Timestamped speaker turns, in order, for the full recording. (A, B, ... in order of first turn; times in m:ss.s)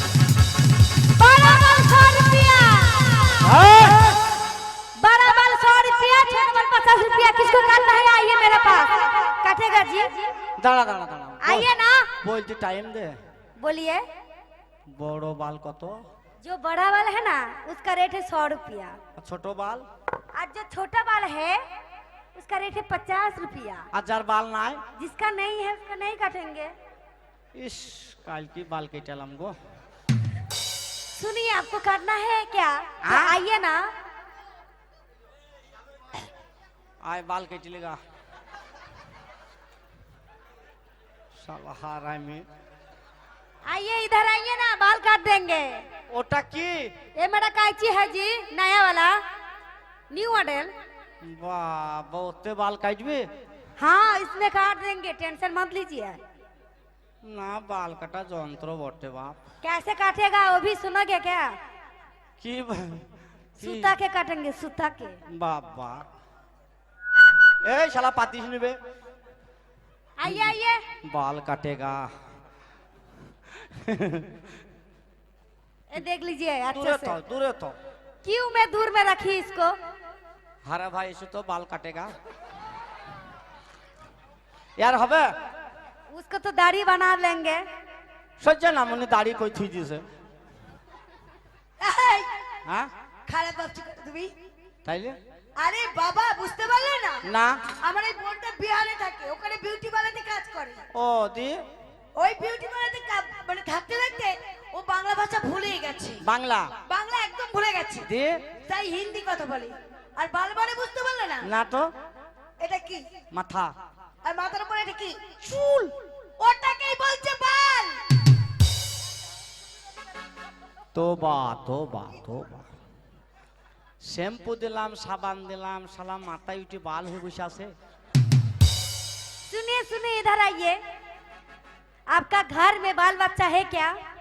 0:01.2-0:04.1 A
0:03.4-0:04.2 B
0:05.0-0:10.3 A
0:10.6-0:11.7 B
0:11.4-0:12.1 A
0:12.2-0:13.2 B
0:13.6-0:14.0 A
0:14.9-0:16.0 B
0:16.4-0:19.0 A
0:19.2-0:19.8 B
0:20.4-0:21.6 A
0:22.3-0:23.9 A
0:23.9-0:24.8 B
0:25.0-0:26.7 A
0:27.5-0:29.6 B
0:31.2-0:33.9 A
0:33.0-0:33.4 B
0:37.0-0:38.0 B
0:41.4-0:42.4 B
0:43.6-0:45.8 A
0:46.1-0:46.9 B
0:47.2-0:49.2 A
0:50.1-0:50.7 A
0:51.2-0:53.3 B
0:53.8-0:56.2 A
0:57.2-0:59.4 B
0:59.6-1:01.6 A
1:02.4-1:03.0 B
1:03.6-1:05.2 A
1:03.6-1:03.9 B
1:05.3-1:06.0 B
1:07.6-1:08.8 B
1:10.2-1:10.8 A
1:10.2-1:10.5 B
1:11.0-1:12.1 B
1:13.7-1:14.3 B
1:15.9-1:17.2 A
1:16.7-1:17.7 B
1:18.2-1:19.8 A
1:20.6-1:22.1 B
1:24.8-1:25.3 B
1:26.1-1:27.6 A
1:28.4-1:30.0 B
1:31.8-1:32.3 C
1:33.3-1:34.3 C
1:34.8-1:35.2 B
1:35.6-1:37.2 C
1:37.2-1:37.6 B
1:37.8-1:40.8 C
1:40.9-1:41.6 B
1:42.2-1:46.2 C
1:46.2-1:46.7 B
1:46.8-1:48.1 C
1:48.0-1:48.4 B
1:48.6-1:51.4 C
1:51.4-1:51.9 B
1:52.6-1:53.0 C
1:53.3-1:53.7 B
1:54.2-1:55.2 C
1:55.4-1:55.9 B
1:56.4-1:58.0 C
2:00.9-2:02.7 B
2:04.0-2:07.7 B
2:09.5-2:10.8 A
2:12.1-2:14.0 A